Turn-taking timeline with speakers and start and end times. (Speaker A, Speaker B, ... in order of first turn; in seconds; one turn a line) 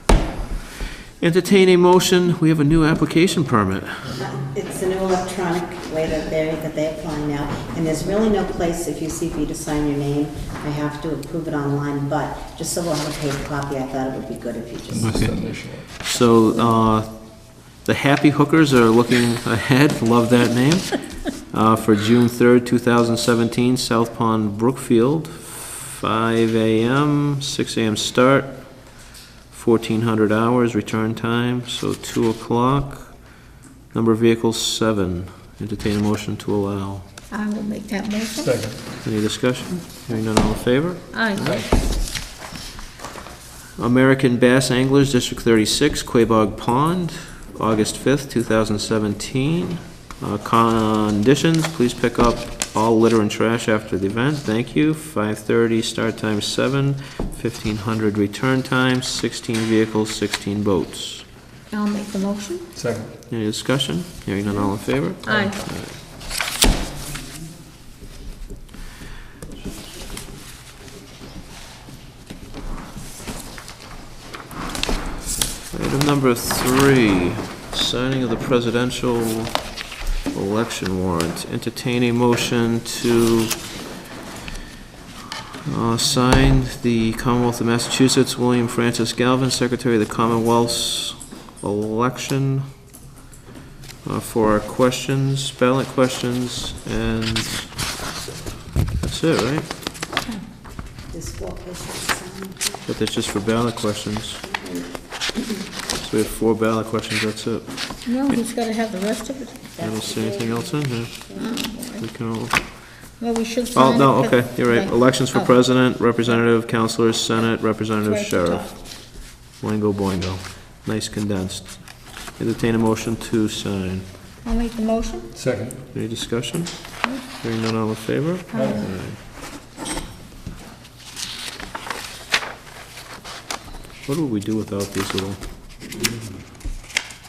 Speaker A: 1.2-4.2
Speaker B: 4.2-15.2
Speaker C: 14.9-15.9
Speaker A: 15.0-37.0
Speaker D: 37.3-38.7
Speaker C: 38.4-38.8
Speaker A: 39.0-41.6
Speaker D: 41.1-41.5
Speaker C: 41.4-41.7
Speaker A: 43.8-61.2
Speaker D: 61.7-62.7
Speaker C: 62.7-63.1
Speaker A: 63.3-66.0
Speaker D: 64.5-65.6
Speaker A: 75.7-79.7
Speaker A: 80.3-83.6
Speaker A: 85.7-92.6
Speaker A: 94.0-97.7
Speaker A: 99.0-99.7
Speaker B: 101.1-102.9
Speaker A: 102.9-104.4
Speaker B: 104.4-105.0
Speaker A: 105.9-108.4
Speaker D: 108.0-109.7
Speaker B: 109.8-111.5
Speaker A: 109.8-111.3
Speaker D: 111.3-112.1
Speaker A: 112.0-113.0
Speaker D: 113.0-116.3
Speaker A: 113.7-118.7
Speaker D: 118.0-118.8
Speaker A: 119.3-124.1
Speaker D: 124.4-125.3
Speaker C: 125.3-125.8
Speaker A: 125.9-129.2
Speaker D: 128.5-128.9
Speaker C: 128.5-128.9
Speaker A: 134.1-135.4